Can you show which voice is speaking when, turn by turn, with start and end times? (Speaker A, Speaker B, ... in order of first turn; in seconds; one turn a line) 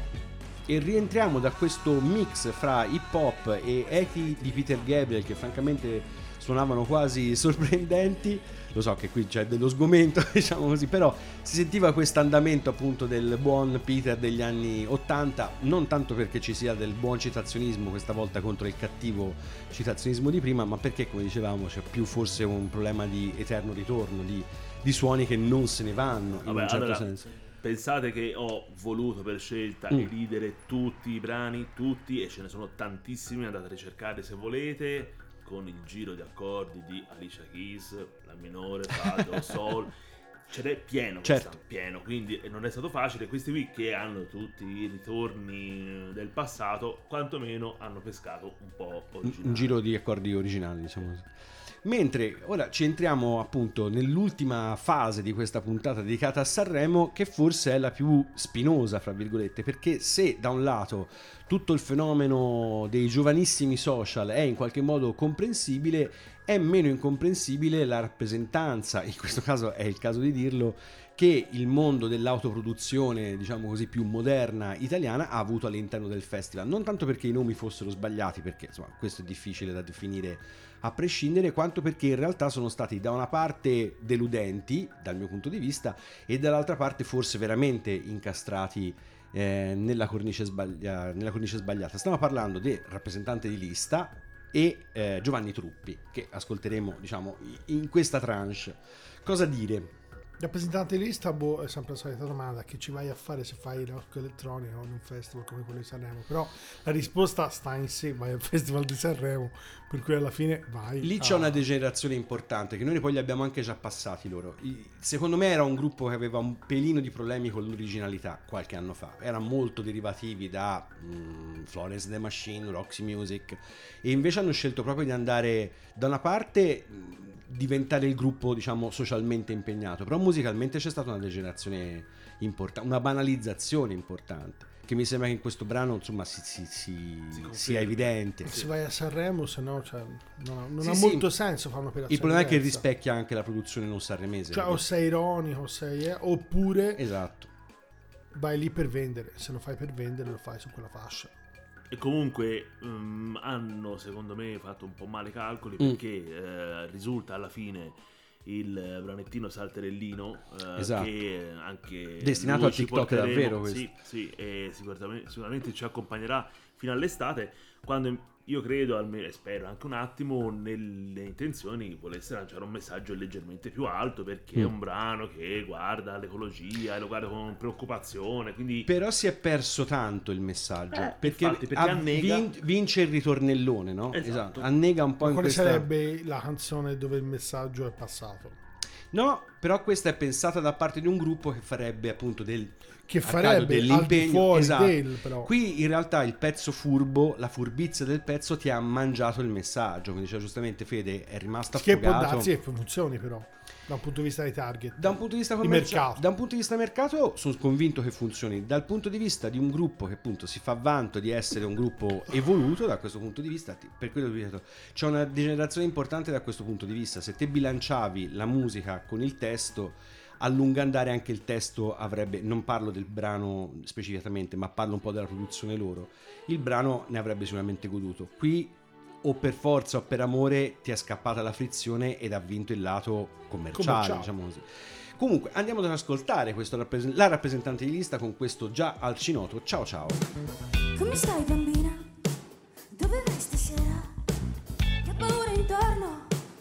Speaker A: 0.7-27.3
Speaker B: 26.4-27.1
Speaker B: 27.6-39.9
Speaker B: 40.5-49.8
Speaker A: 41.2-41.5
Speaker A: 49.2-51.3
Speaker A: 51.8-99.9
Speaker C: 100.4-111.6
Speaker A: 111.0-138.6
Speaker B: 137.3-138.7
Speaker C: 138.4-142.8
Speaker A: 140.8-141.3
Speaker A: 142.1-144.8
Speaker C: 144.5-147.0
Speaker A: 147.0-147.5
Speaker C: 148.3-151.3
Speaker B: 151.9-178.9
Speaker A: 160.8-161.1
Speaker A: 162.2-163.9
Speaker A: 178.9-185.9
Speaker B: 180.9-182.5
Speaker B: 184.1-184.7
Speaker C: 185.2-188.6
Speaker A: 189.1-202.5
Speaker C: 193.1-195.5
Speaker C: 201.8-206.2
Speaker A: 205.0-240.3
Speaker C: 233.7-234.3
Speaker D: 241.0-242.1
Speaker D: 242.9-244.1
Speaker D: 245.0-246.3